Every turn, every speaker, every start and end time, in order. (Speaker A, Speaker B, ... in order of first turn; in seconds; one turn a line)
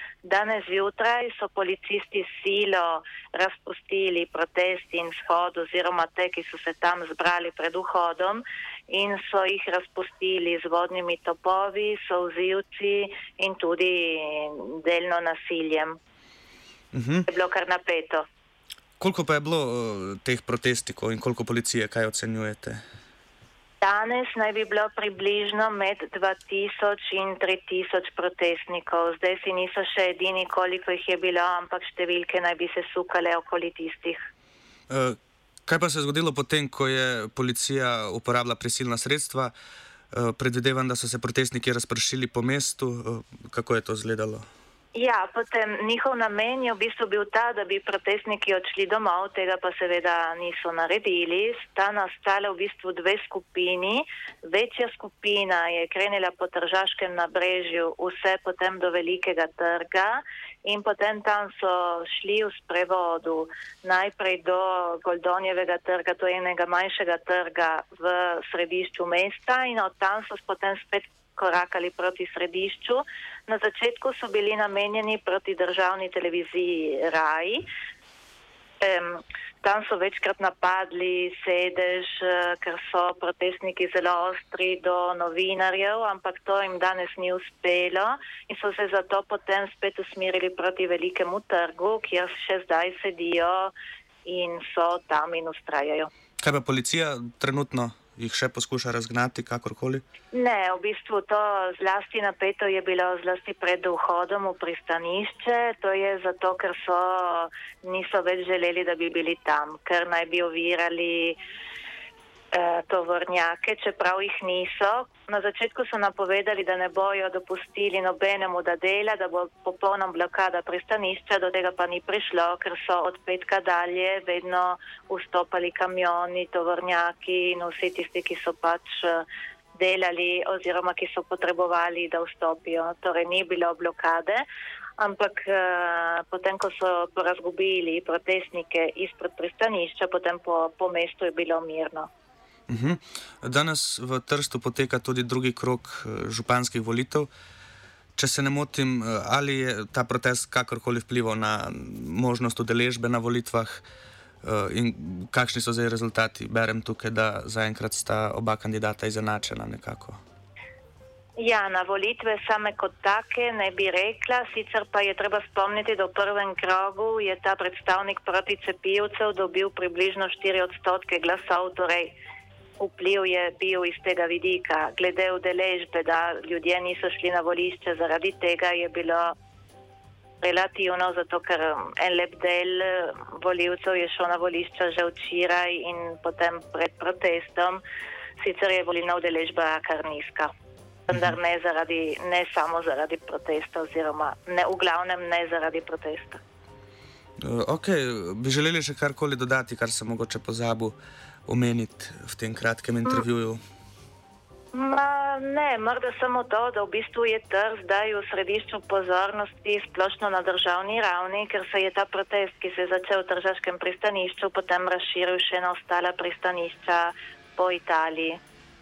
Speaker A: 0.2-16.0
Speaker B: 16.9-17.2
Speaker A: 17.3-18.2
Speaker B: 19.0-22.8
Speaker A: 23.8-34.2
Speaker B: 34.9-39.5
Speaker B: 40.1-44.4
Speaker A: 44.9-77.6
Speaker A: 78.8-93.7
Speaker A: 94.2-96.1
Speaker B: 96.4-100.0
Speaker A: 100.3-111.4
Speaker A: 112.5-129.2
Speaker A: 129.8-134.4
Speaker A: 135.0-142.1
Speaker B: 142.7-147.3
Speaker B: 148.2-153.8
Speaker B: 154.4-160.2
Speaker A: 161.4-172.1
Speaker A: 172.8-179.3
Speaker A: 180.4-187.8
Speaker A: 188.4-190.5
Speaker A: 191.1-196.4
Speaker B: 197.4-200.9
Speaker B: 201.4-203.6
Speaker A: 204.7-218.4